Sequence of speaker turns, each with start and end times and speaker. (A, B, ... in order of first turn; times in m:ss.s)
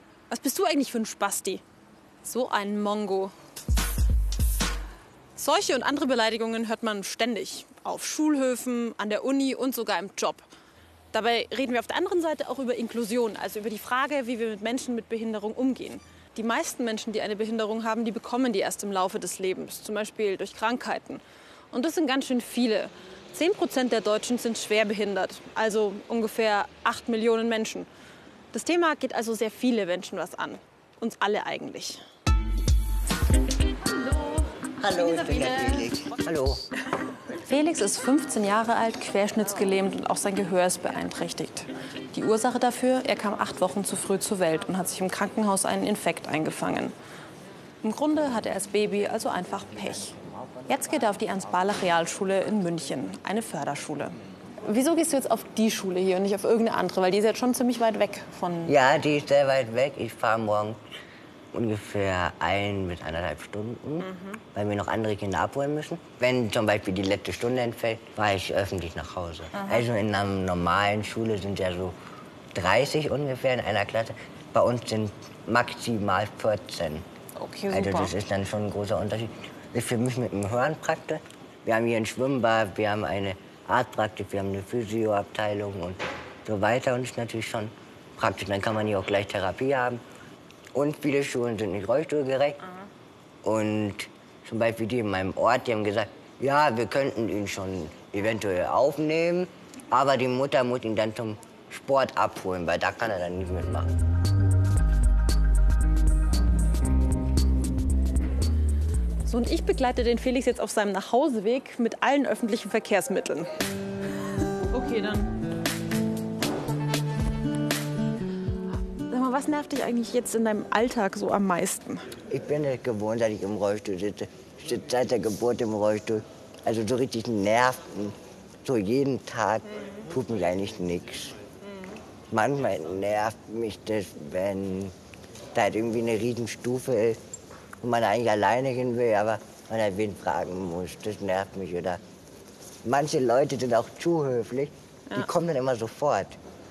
0:00.3-0:01.6 A
0:02.2-0:03.3 A
0:05.4-0:10.4 A
0:11.1-0:27.9 A
0:28.5-0:32.0 A
0:33.8-0:35.9 A
0:34.8-0:36.6 B
0:37.5-0:46.9 A
0:47.8-0:50.2 A
0:50.7-0:58.8 A
0:58.7-1:00.8 B
1:01.5-1:11.9 B
1:04.0-1:04.4 A
1:09.5-1:09.8 A
1:12.6-1:17.0 B
1:17.4-1:18.1 A
1:17.7-1:30.0 B
1:30.8-1:32.6 B
1:33.4-1:43.9 B
1:49.3-1:53.5 A
1:54.7-1:55.3 A
1:59.1-2:02.1 A
2:02.3-2:11.4 B
2:12.3-2:14.9 B
2:15.5-2:17.2 B
2:17.8-2:22.0 B
2:22.8-2:26.4 B